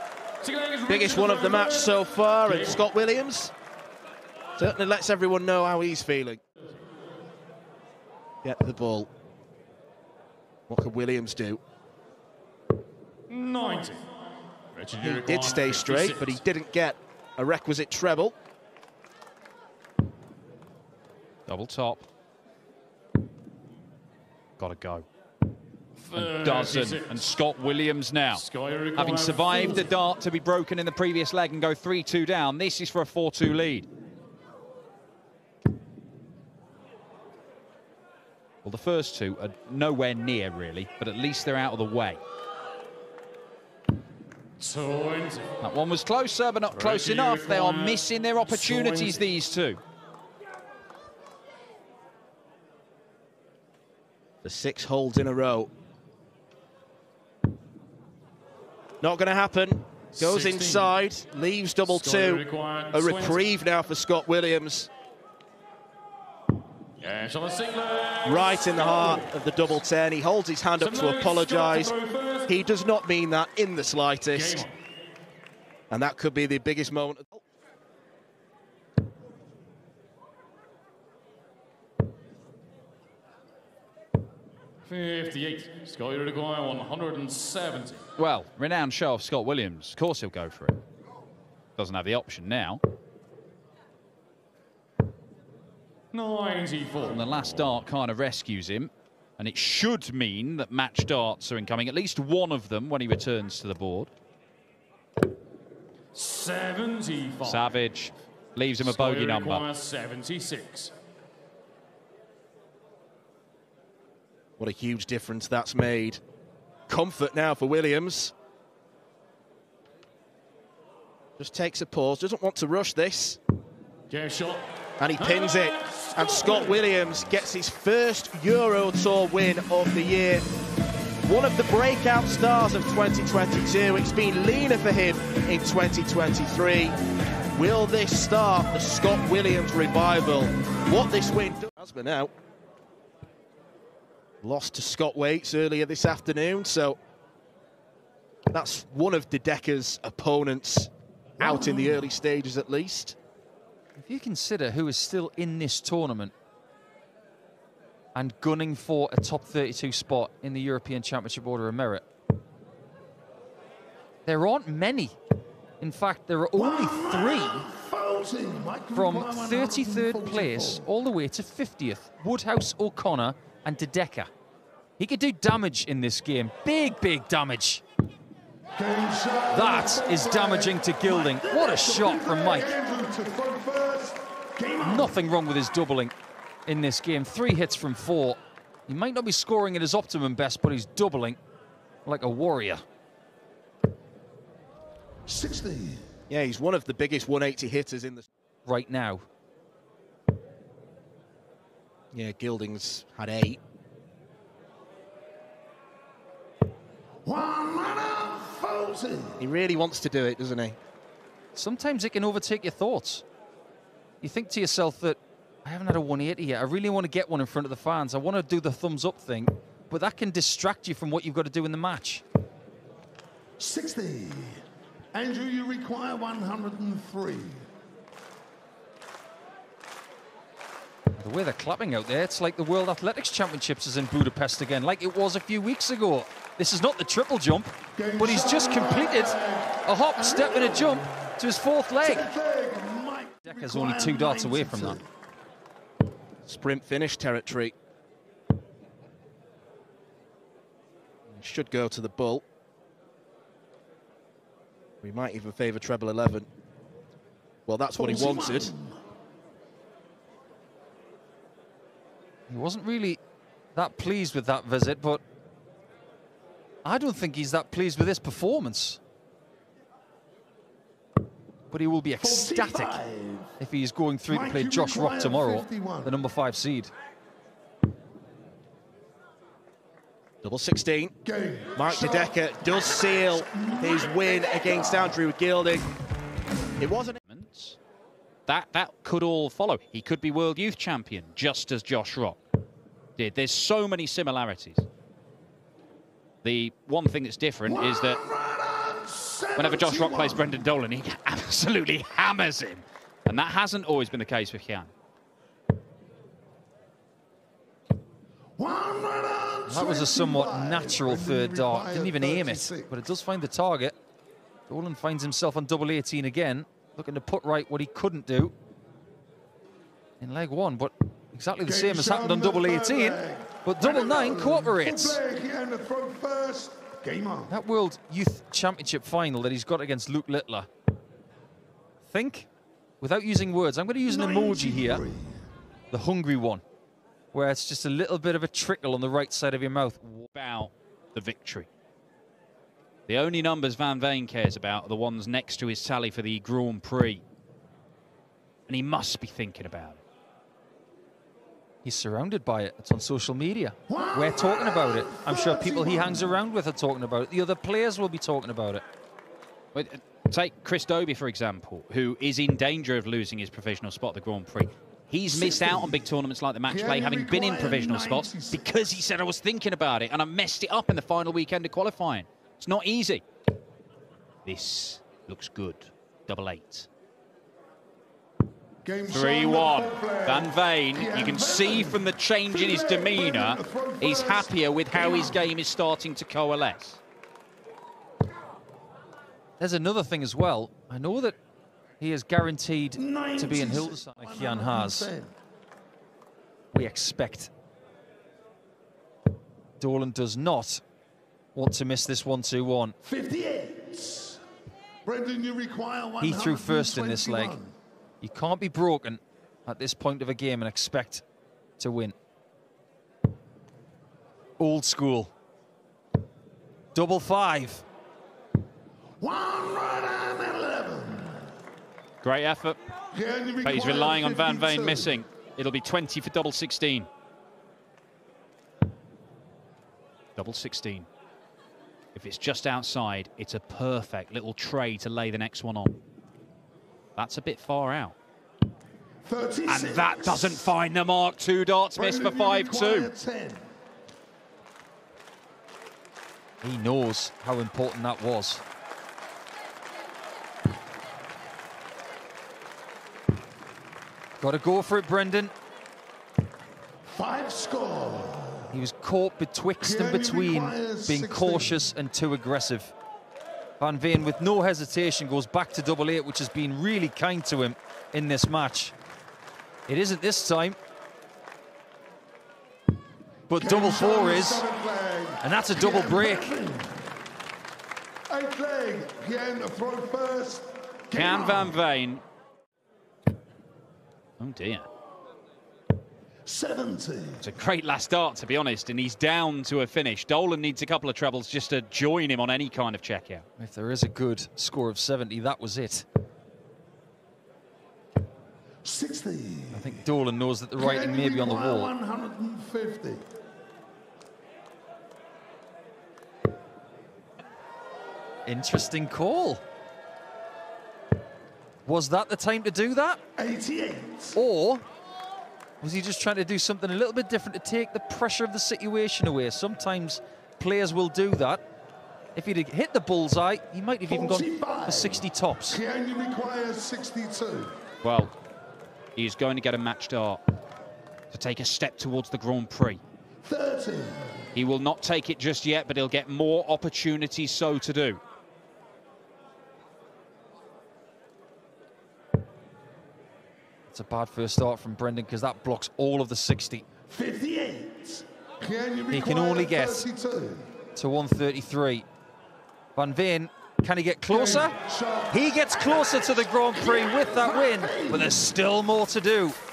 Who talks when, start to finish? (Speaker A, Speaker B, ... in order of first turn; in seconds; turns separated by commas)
Speaker A: 0.4-2.8, Speaker B: 0.9-3.5, Speaker B: 4.6-6.4, Speaker B: 8.4-9.1, Speaker B: 10.7-11.6, Speaker A: 13.3-14.2, Speaker A: 14.7-16.4, Speaker B: 14.9-18.3, Speaker C: 21.5-22.0, Speaker C: 24.6-25.1, Speaker A: 26.0-27.2, Speaker C: 26.1-28.4, Speaker A: 28.3-29.9, Speaker C: 29.0-33.9, Speaker C: 38.6-42.2, Speaker A: 44.6-45.6, Speaker C: 45.6-49.8, Speaker A: 46.7-49.2, Speaker B: 54.4-55.7, Speaker B: 59.0-64.9, Speaker A: 60.2-60.9, Speaker A: 61.9-63.4, Speaker A: 67.0-69.2, Speaker B: 68.2-72.0, Speaker A: 70.8-72.5, Speaker B: 72.5-74.6, Speaker A: 74.3-74.7, Speaker B: 75.9-77.4, Speaker A: 84.8-88.0, Speaker C: 88.2-90.8, Speaker C: 91.8-92.8, Speaker A: 96.1-97.5, Speaker C: 97.0-104.1, Speaker A: 106.1-107.8, Speaker C: 107.4-109.7, Speaker A: 108.8-110.9, Speaker B: 114.6-116.2, Speaker B: 116.9-118.3, Speaker B: 121.4-123.4, Speaker A: 124.1-124.6, Speaker B: 125.0-130.4, Speaker A: 125.2-126.7, Speaker B: 131.2-136.9, Speaker B: 137.5-142.3, Speaker B: 144.4-147.0, Speaker B: 148.5-153.2, Speaker D: 151.4-152.0, Speaker E: 154.0-156.3, Speaker E: 158.1-162.0, Speaker E: 164.2-165.2, Speaker E: 165.8-167.7, Speaker D: 166.5-170.8, Speaker E: 168.9-174.3, Speaker E: 175.0-177.8, Speaker D: 178.8-185.1, Speaker E: 179.5-182.7, Speaker E: 184.8-186.1, Speaker E: 186.7-191.4, Speaker E: 192.1-192.8, Speaker D: 195.3-196.0, Speaker B: 196.3-198.2, Speaker E: 198.7-199.2, Speaker B: 202.1-203.6, Speaker D: 207.2-209.4, Speaker B: 209.4-210.8, Speaker E: 211.5-213.2, Speaker E: 214.2-222.2, Speaker D: 223.6-224.6, Speaker D: 225.1-227.6, Speaker E: 231.2-242.3, Speaker D: 237.9-241.2, Speaker D: 242.0-245.1, Speaker E: 243.4-245.0, Speaker B: 246.4-247.7, Speaker B: 251.3-252.4, Speaker B: 255.0-256.5, Speaker B: 257.7-258.7, Speaker D: 257.9-258.9, Speaker E: 262.5-263.2, Speaker E: 263.7-265.2, Speaker E: 266.8-269.0, Speaker E: 271.7-273.0, Speaker D: 272.2-273.5, Speaker E: 273.6-276.9, Speaker D: 274.3-276.1, Speaker B: 280.4-281.1, Speaker D: 281.2-282.4, Speaker B: 281.8-285.8, Speaker D: 283.3-285.0, Speaker B: 286.8-287.2, Speaker C: 287.3-287.8, Speaker C: 288.5-292.4, Speaker C: 293.2-294.9, Speaker C: 296.4-298.2, Speaker D: 297.6-300.6, Speaker C: 299.6-304.9, Speaker D: 308.6-312.9, Speaker E: 309.7-313.9, Speaker E: 314.7-318.5, Speaker E: 320.2-325.2, Speaker D: 321.6-327.5, Speaker E: 327.5-330.7, Speaker E: 332.1-332.5, Speaker E: 333.0-335.0, Speaker D: 334.1-335.3, Speaker E: 335.9-336.6, Speaker E: 337.3-340.2, Speaker C: 340.3-341.7, Speaker C: 343.1-347.2, Speaker C: 348.7-350.0, Speaker E: 351.8-358.8, Speaker D: 353.9-356.4, Speaker C: 359.7-373.2, Speaker D: 365.3-366.0, Speaker D: 366.7-369.0, Speaker C: 374.4-376.9, Speaker D: 378.8-385.4, Speaker C: 379.1-387.0, Speaker E: 389.6-391.4, Speaker E: 392.0-395.1, Speaker D: 392.9-395.3, Speaker E: 396.7-397.5, Speaker E: 399.8-400.8, Speaker E: 401.5-402.9, Speaker D: 403.0-404.4, Speaker D: 405.0-407.7, Speaker E: 406.2-407.6, Speaker E: 408.2-411.2, Speaker E: 411.8-412.1, Speaker E: 414.6-415.3, Speaker E: 416.9-417.8, Speaker D: 419.2-421.5, Speaker C: 422.2-422.8, Speaker D: 423.1-425.2, Speaker C: 423.6-427.1, Speaker C: 430.4-431.1, Speaker C: 432.1-436.0, Speaker C: 437.1-438.1, Speaker D: 439.2-440.7, Speaker C: 439.6-443.1, Speaker D: 441.9-443.6, Speaker E: 446.6-448.6, Speaker E: 454.4-455.5, Speaker D: 457.1-458.7, Speaker E: 458.7-462.9, Speaker D: 459.8-461.8, Speaker E: 463.8-468.9, Speaker E: 469.9-470.8, Speaker E: 473.5-474.6, Speaker D: 473.6-477.0, Speaker E: 475.4-476.5, Speaker D: 478.3-481.8, Speaker C: 481.1-482.2, Speaker C: 484.4-484.9, Speaker D: 486.4-487.5, Speaker C: 487.4-493.4, Speaker E: 493.6-496.0, Speaker D: 498.8-500.0, Speaker E: 499.7-501.9, Speaker D: 500.8-503.2, Speaker E: 508.4-509.6, Speaker E: 511.9-513.2, Speaker D: 513.4-514.4, Speaker E: 514.3-514.8, Speaker E: 515.8-521.6, Speaker E: 522.3-525.8, Speaker D: 524.1-527.8, Speaker C: 528.0-528.3, Speaker C: 529.1-530.4, Speaker C: 531.3-533.0, Speaker D: 533.4-534.5, Speaker C: 534.5-538.2, Speaker E: 543.9-546.8, Speaker D: 547.1-550.7, Speaker E: 549.1-550.1, Speaker E: 550.9-552.0, Speaker E: 553.0-554.7, Speaker D: 554.3-555.5, Speaker E: 555.3-559.6, Speaker D: 556.7-558.4